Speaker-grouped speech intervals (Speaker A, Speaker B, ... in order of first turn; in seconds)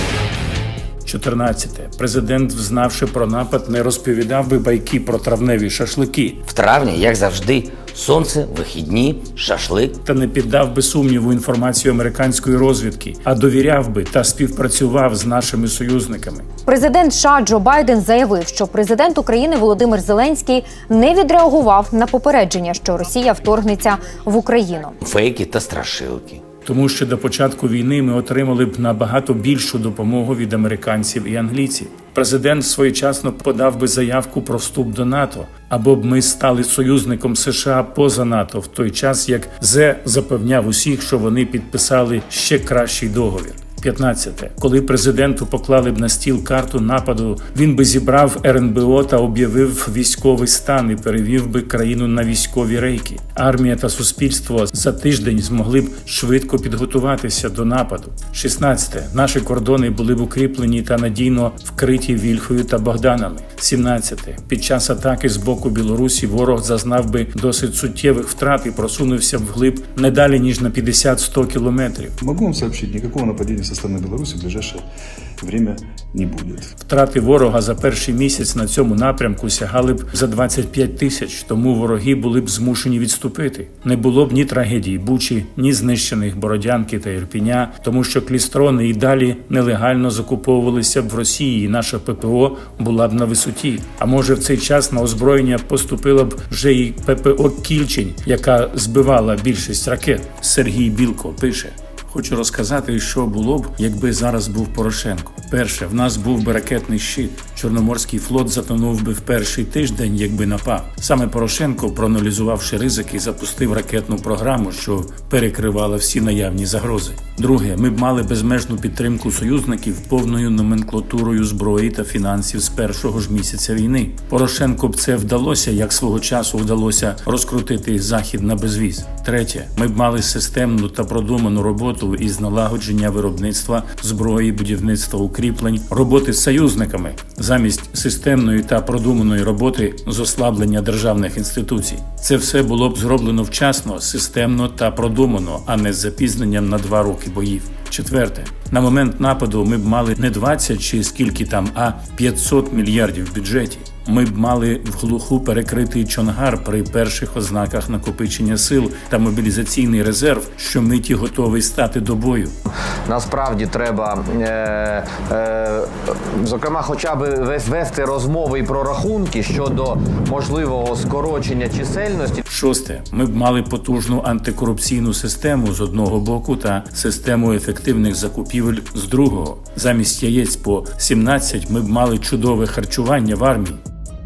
Speaker A: 1.1-6.4, 10.0-16.5, 26.6-72.2, 76.8-162.6, 172.5-183.8
Speaker B: 6.5-10.0, 25.0-26.4
Speaker C: 16.7-24.9
Speaker D: 72.2-74.8, 75.4-76.7
Speaker E: 163.1-172.4